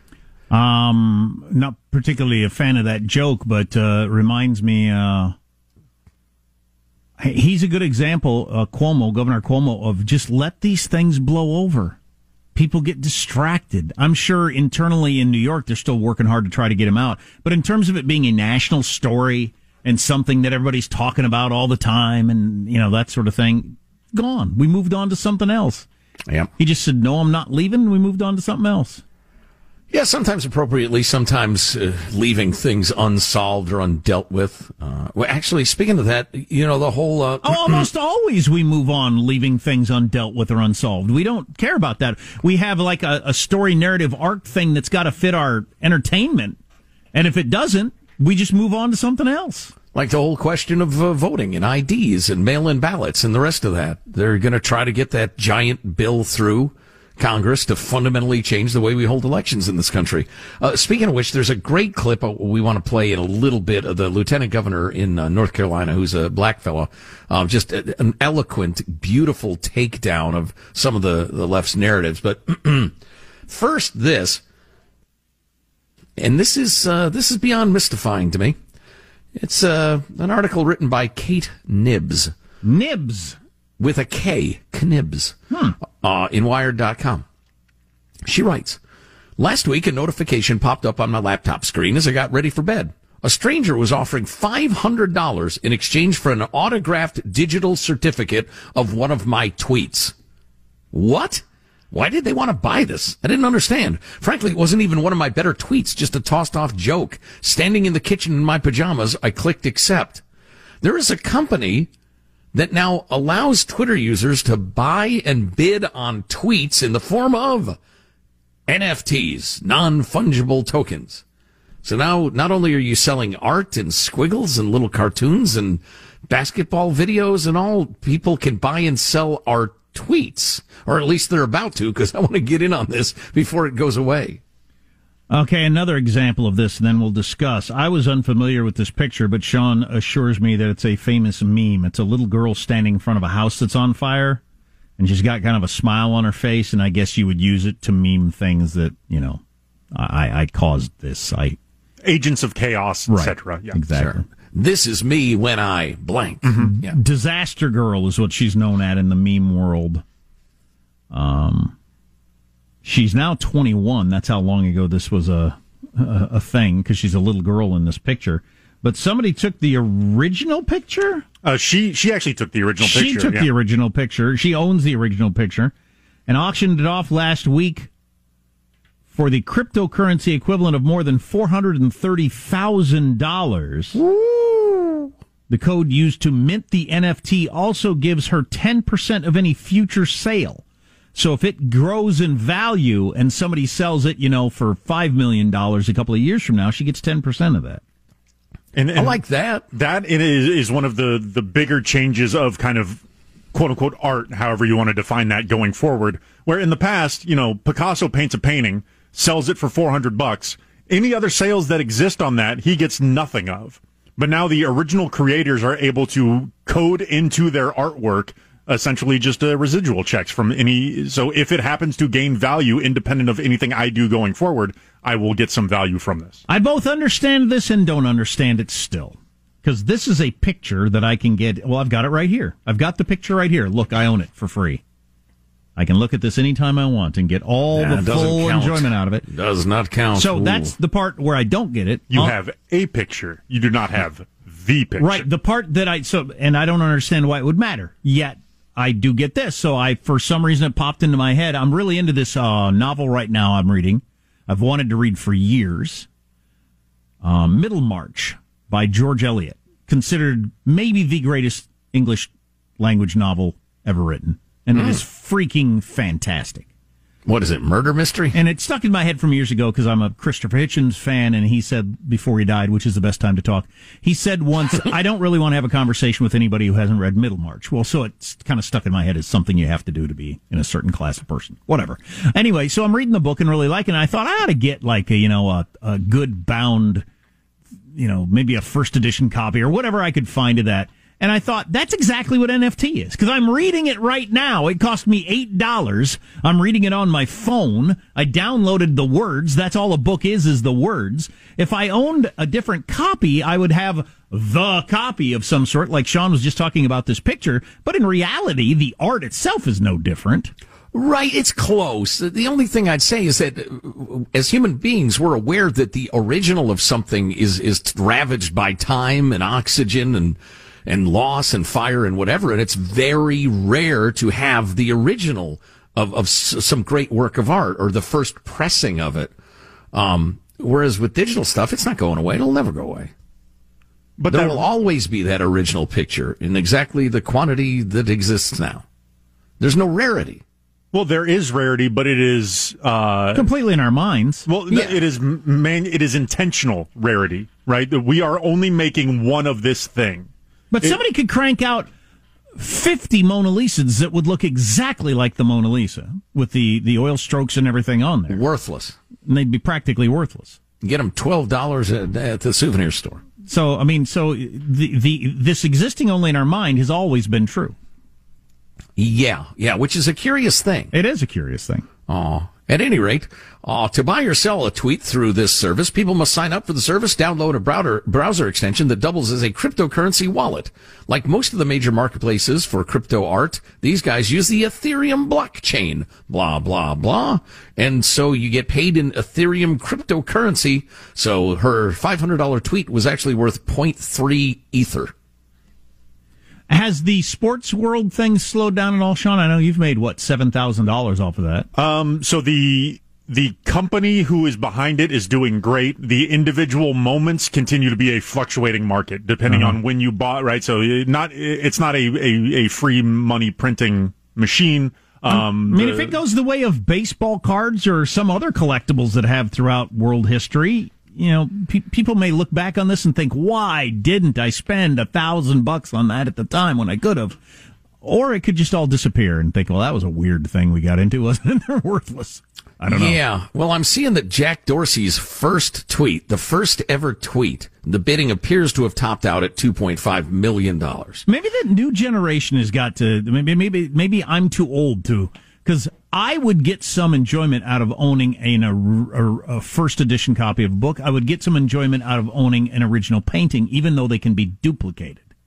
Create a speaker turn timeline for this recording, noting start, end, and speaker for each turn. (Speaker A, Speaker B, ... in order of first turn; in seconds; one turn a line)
Speaker A: 0.5-5.3
Speaker A: 7.2-12.0
Speaker A: 12.5-25.9
Speaker A: 26.6-29.0
Speaker B: 29.9-37.9
Speaker A: 37.4-46.6
Speaker A: 47.1-49.7
Speaker B: 49.9-72.9
Speaker B: 73.5-74.4
Speaker B: 76.2-78.6
Speaker B: 79.4-82.3
Speaker A: 82.6-83.4
Speaker B: 83.8-85.4
Speaker A: 85.5-85.8
Speaker B: 86.0-87.2
Speaker B: 88.2-88.8
Speaker B: 89.4-100.1
Speaker B: 100.9-110.2
Speaker B: 110.8-111.9
Speaker B: 112.5-117.8
Speaker B: 118.7-121.2
Speaker B: 121.8-134.4
Speaker A: 135.3-144.4
Speaker A: 145.0-149.4
Speaker A: 149.9-151.6
Speaker C: 152.0-153.8
Speaker A: 153.1-154.2
Speaker B: 153.9-157.0
Speaker C: 156.4-156.7
Speaker A: 156.6-160.0
Speaker A: 161.1-161.7
Speaker A: 162.8-171.2
Speaker C: 171.4-173.5
Speaker A: 172.8-175.7
Speaker A: 176.3-177.9
Speaker A: 179.1-184.0
Speaker B: 183.9-185.1
Speaker A: 185.5-190.6
Speaker A: 191.1-197.8
Speaker C: 198.7-203.0
Speaker B: 198.9-199.6
Speaker C: 203.5-226.4
Speaker A: 226.5-234.8
Speaker A: 235.8-239.2
Speaker B: 237.7-240.7
Speaker A: 240.1-242.4
Speaker C: 242.1-245.2
Speaker A: 245.0-256.1
Speaker A: 257.2-266.7
Speaker B: 264.7-265.0
Speaker B: 267.2-268.4
Speaker A: 268.3-287.0
Speaker A: 287.9-310.5
Speaker B: 310.9-329.3
Speaker B: 329.9-333.1
Speaker C: 334.2-334.6
Speaker B: 334.3-338.8
Speaker B: 339.6-340.4
Speaker C: 340.9-343.5
Speaker A: 343.3-344.4
Speaker C: 344.5-350.3
Speaker B: 344.7-345.0
Speaker A: 350.7-351.9
Speaker A: 352.6-358.4
Speaker B: 358.3-359.0
Speaker A: 359.2-360.6
Speaker B: 360.8-363.2
Speaker A: 363.4-367.8
Speaker B: 369.0-370.9
Speaker A: 370.9-371.9
Speaker B: 372.1-395.1
Speaker A: 396.7-401.7
Speaker C: 401.7-416.1
Speaker A: 409.4-409.8
Speaker A: 415.3-427.4
Speaker A: 428.0-433.2
Speaker B: 432.9-441.2
Speaker A: 441.3-455.3